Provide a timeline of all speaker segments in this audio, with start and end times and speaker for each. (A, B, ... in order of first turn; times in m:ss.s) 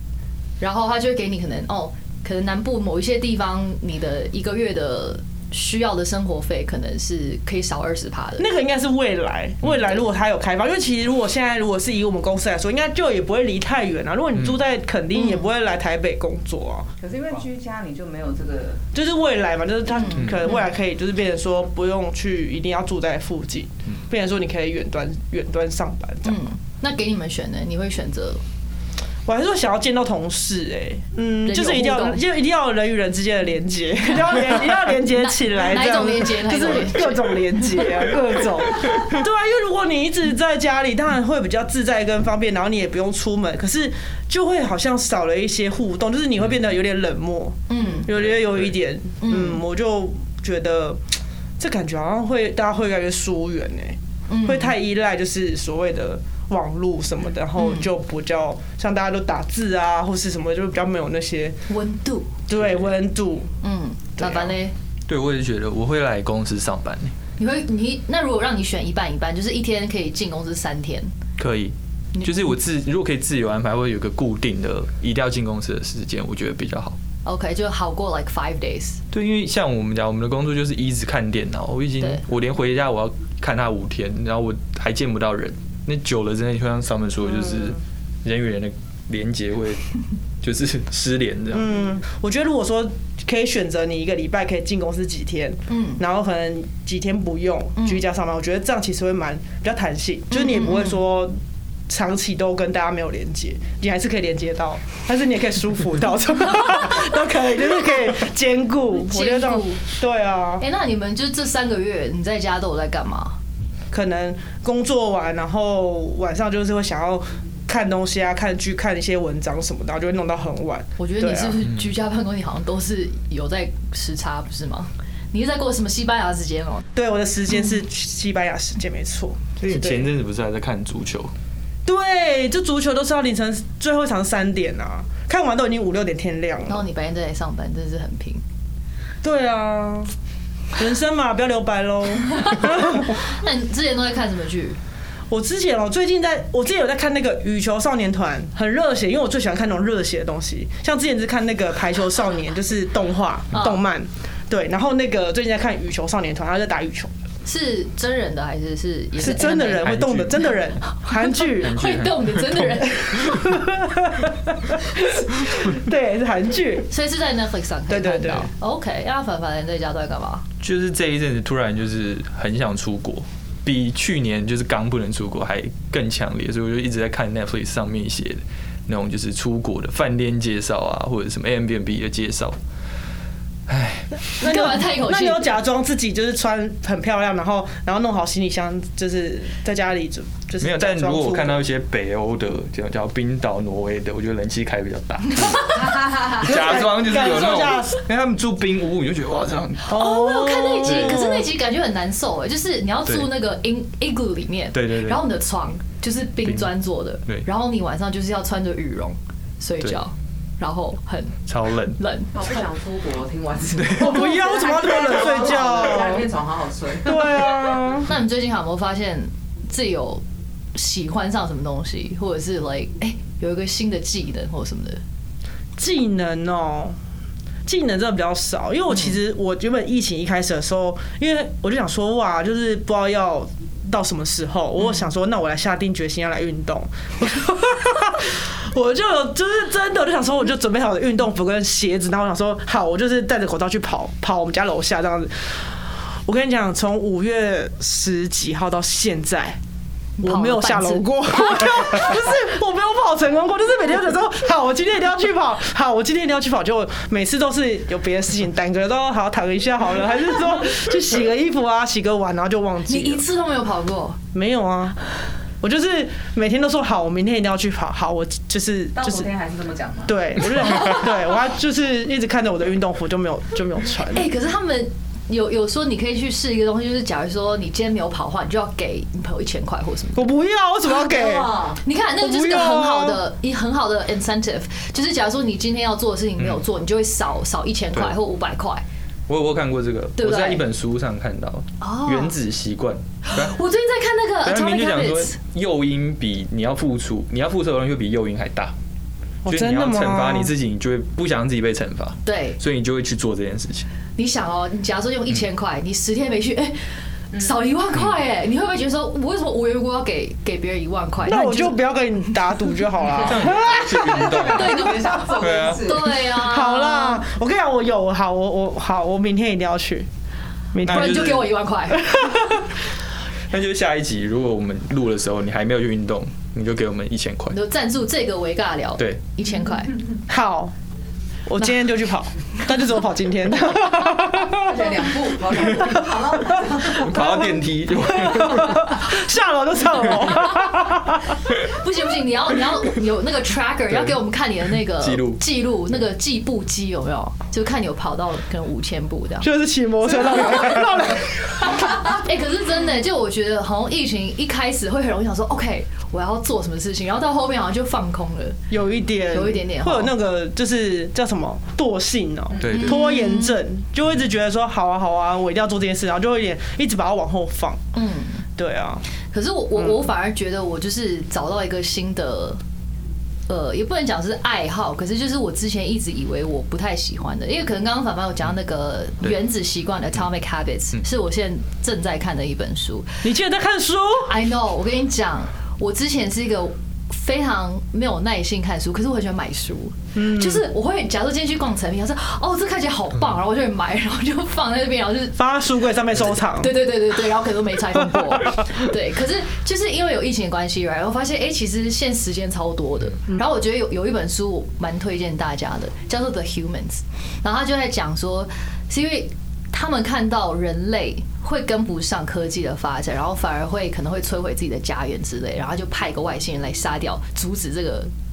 0:00.6-0:08.5 A
0:08.4-0:16.9 B
0:15.1-0:15.4 A
0:17.0-0:18.8 C
0:18.9-0:26.4 B
0:20.4-0:20.7 A
0:26.2-0:28.4 A
0:29.2-0:51.0 B
0:31.4-0:32.2 A
0:35.1-0:37.8 A
0:47.7-0:48.1 A
0:48.1-0:48.7 D
0:49.2-0:49.6 A
0:51.6-1:01.6 B
0:54.3-0:54.7 A
0:57.6-0:57.9 A
1:01.7-1:02.3 A
1:02.5-1:03.5 B
1:02.5-1:02.9 D
1:03.6-1:04.7 A
1:04.2-1:04.5 B
1:05.1-1:07.2 D
1:07.4-1:11.1 A
1:11.4-1:17.0 D
1:17.2-1:19.0 A
1:19.1-1:29.8 D
1:30.4-1:31.7 D
1:31.5-1:41.3 B
1:35.7-1:36.0 A
1:40.3-1:40.9 A
1:41.9-1:50.6 B
1:48.9-1:49.8 A
1:50.6-1:53.4 A
1:53.9-2:01.6 B
2:01.0-2:06.8 A
2:01.6-2:01.9 D
2:06.9-2:10.1 B
2:09.6-2:11.3 D
2:11.8-2:16.8 B
2:16.7-2:18.4 A
2:19.2-2:20.1 B
2:20.7-2:23.2 B
2:22.4-2:24.8 A
2:25.3-2:37.1 B
2:33.5-2:33.8 A
2:37.4-2:40.0 A
2:39.2-2:41.8 B
2:39.8-2:40.5 D
2:41.1-2:43.4 A
2:41.5-2:43.5 D
2:43.1-2:46.9 B
2:46.9-2:50.4 A
2:47.9-2:48.5 B
2:50.6-3:02.6 D
3:03.7-3:04.7 D
3:04.4-3:05.5 A
3:04.4-3:11.6 B
3:10.6-3:20.0 D
3:15.7-3:16.5 C
3:16.4-3:18.0 B
3:19.8-3:32.6 A
3:19.9-3:21.4 B
3:20.8-3:21.2 D
3:24.7-3:25.2 D
3:26.4-3:26.7 D
3:31.5-3:32.0 D
3:32.3-3:37.8 C
3:33.8-3:34.1 D
3:33.9-3:36.3 B
3:37.0-3:38.1 B
3:38.0-3:40.2 A
3:40.7-3:45.0 A
3:45.8-3:47.0 B
3:47.6-4:09.6 B
4:10.2-4:12.1 A
4:10.2-4:23.2 B
4:22.8-4:24.2 A
4:24.3-4:25.0 B
4:25.6-4:29.3 B
4:29.0-4:30.9 C
4:30.0-4:34.3 B
4:34.1-4:40.3 A
4:40.1-4:41.5 B
4:40.9-4:41.8 C
4:41.8-4:48.8 A
4:42.2-4:43.2 B
4:49.3-4:53.6 D
4:50.2-4:50.6 A
4:51.8-4:52.3 A
4:53.2-4:55.4 A
4:54.4-4:58.7 D
4:59.4-5:00.5 B
4:59.4-5:03.9 D
5:02.2-5:02.6 A
5:04.2-5:06.8 A
5:07.3-5:07.6 C
5:07.3-5:12.3 A
5:11.2-5:14.2 B
5:13.2-5:15.9 D
5:13.4-5:16.3 C
5:14.4-5:17.2 A
5:16.2-5:20.1 B
5:20.7-5:21.4 B
5:20.8-5:21.5 D
5:20.9-5:22.2 A
5:21.9-5:22.7 B
5:23.5-5:27.6 D
5:27.5-5:29.9 A
5:30.3-5:30.7 B
5:31.4-5:41.4 B
5:34.5-5:37.1 C
5:36.8-5:39.0 D
5:41.6-5:49.5 A
5:43.9-5:44.2 D
5:44.9-5:45.4 D
5:49.4-5:51.8 B
5:52.0-5:58.6 A
5:58.7-6:07.8 B
5:59.3-6:00.1 A
6:02.6-6:02.9 D
6:02.7-6:03.6 A
6:07.9-6:08.4 A
6:08.6-6:09.0 B
6:09.3-6:12.6 A
6:13.5-6:23.2 A
6:23.2-6:24.3 B
6:24.2-6:35.4 A
6:30.1-6:30.6 B
6:35.3-6:36.7 B
6:36.3-6:58.1 A
6:38.0-6:38.6 B